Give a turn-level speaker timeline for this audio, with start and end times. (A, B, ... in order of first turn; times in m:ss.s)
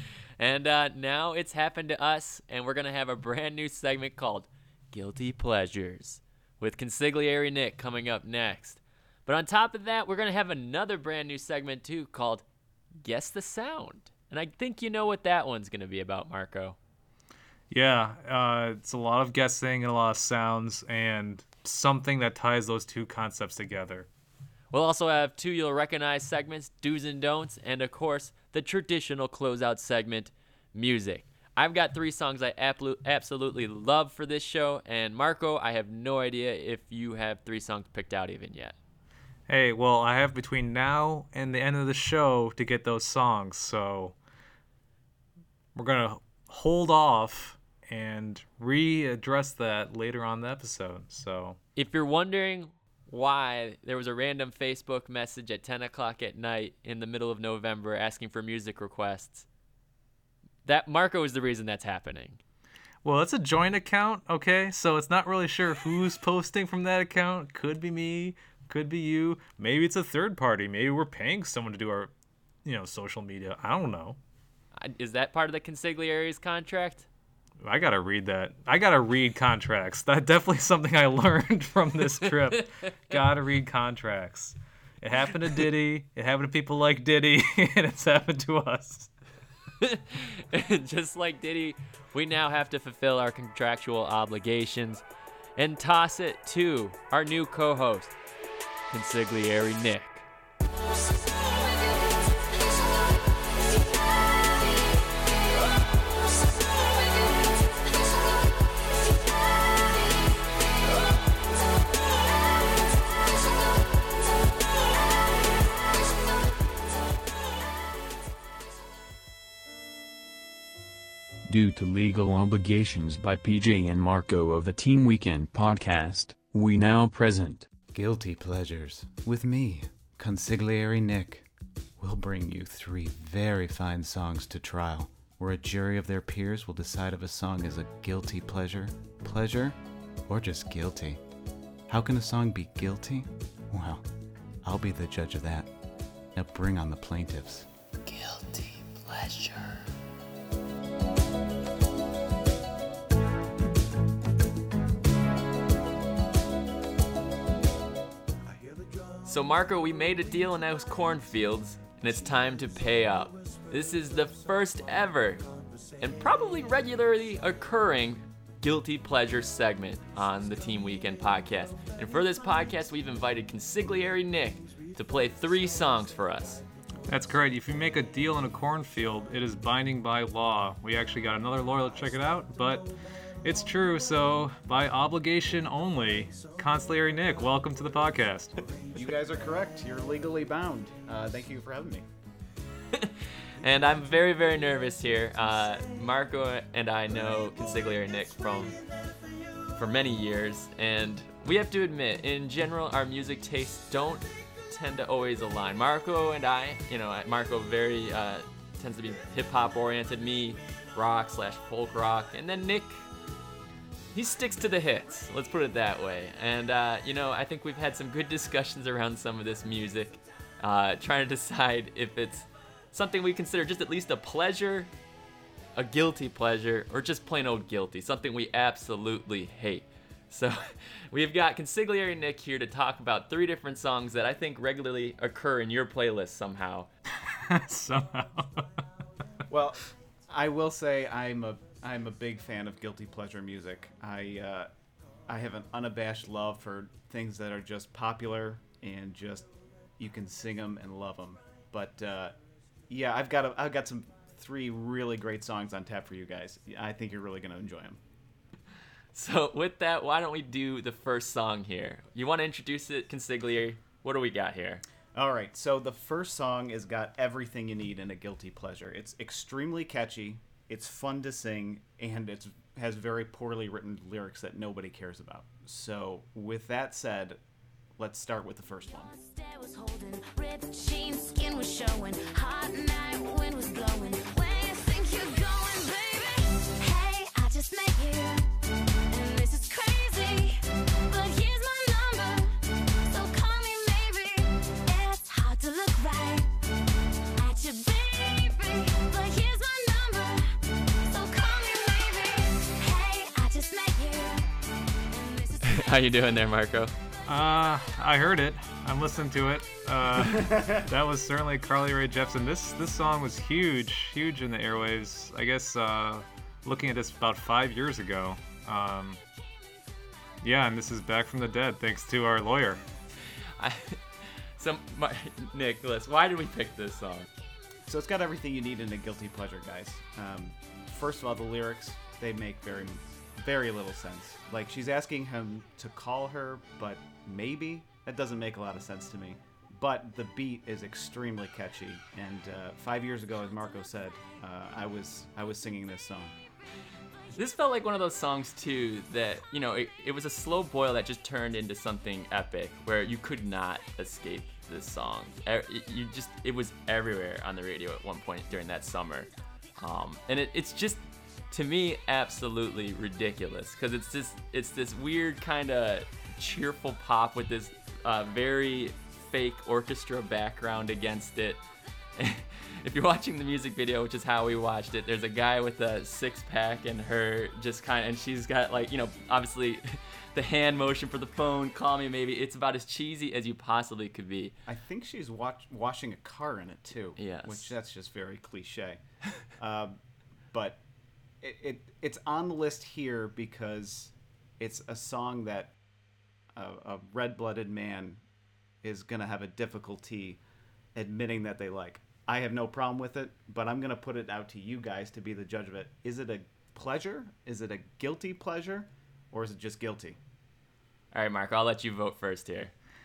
0:00.4-0:12.4 A
0:13.0-0:16.8 A
0:17.7-0:24.1 B
0:24.7-0:38.8 A
0:39.5-0:44.2 B
0:45.7-0:51.6 B
0:51.8-0:59.5 A
1:00.6-1:02.4 A
1:03.0-1:12.1 B
1:12.6-1:14.2 B
1:14.8-1:17.1 A
1:17.6-1:29.1 B
1:22.2-1:23.2 A
1:29.8-1:35.0 A
1:35.6-1:38.2 A
1:38.9-1:40.3 A
1:43.9-1:44.8 C
1:46.6-1:47.5 C
1:49.0-1:50.4 C
1:55.2-1:55.9 C
2:01.5-2:07.7 D
2:07.9-2:11.5 E
2:12.0-2:21.2 E
2:21.9-2:24.0 E
2:24.6-2:25.7 E
2:26.3-2:27.7 E
2:28.0-2:29.8 A
2:39.2-2:45.4 A
2:46.0-2:56.6 A
2:57.1-3:02.9 B
3:03.4-3:08.6 B
3:08.9-3:12.1 E
3:12.9-3:18.8 A
3:19.7-3:33.0 A
3:34.1-3:44.9 A
3:45.7-3:56.9 A
3:57.2-3:58.7 B
3:59.5-4:04.7 E
4:05.3-4:12.3 E
4:12.9-4:18.0 E
4:19.1-4:24.8 A
4:25.1-4:37.4 E
4:38.0-4:39.1 E
4:38.9-4:48.4 C
4:49.1-4:56.5 C
4:57.4-5:04.4 C
5:05.1-5:06.0 C
5:05.6-5:06.9 A
5:07.2-5:19.2 B
5:10.3-5:10.8 E
5:20.4-5:22.8 B
5:23.6-5:24.0 A
5:24.6-5:27.3 A
5:27.8-5:46.3 E
5:47.3-6:11.6 A
6:12.2-6:24.5 A
6:24.6-6:30.0 E
6:27.2-6:27.7 A
6:30.5-6:30.8 E
6:31.4-6:35.8 E
6:36.5-6:38.2 E
6:38.8-6:40.4 E
6:40.9-6:50.2 E
6:51.1-6:52.7 A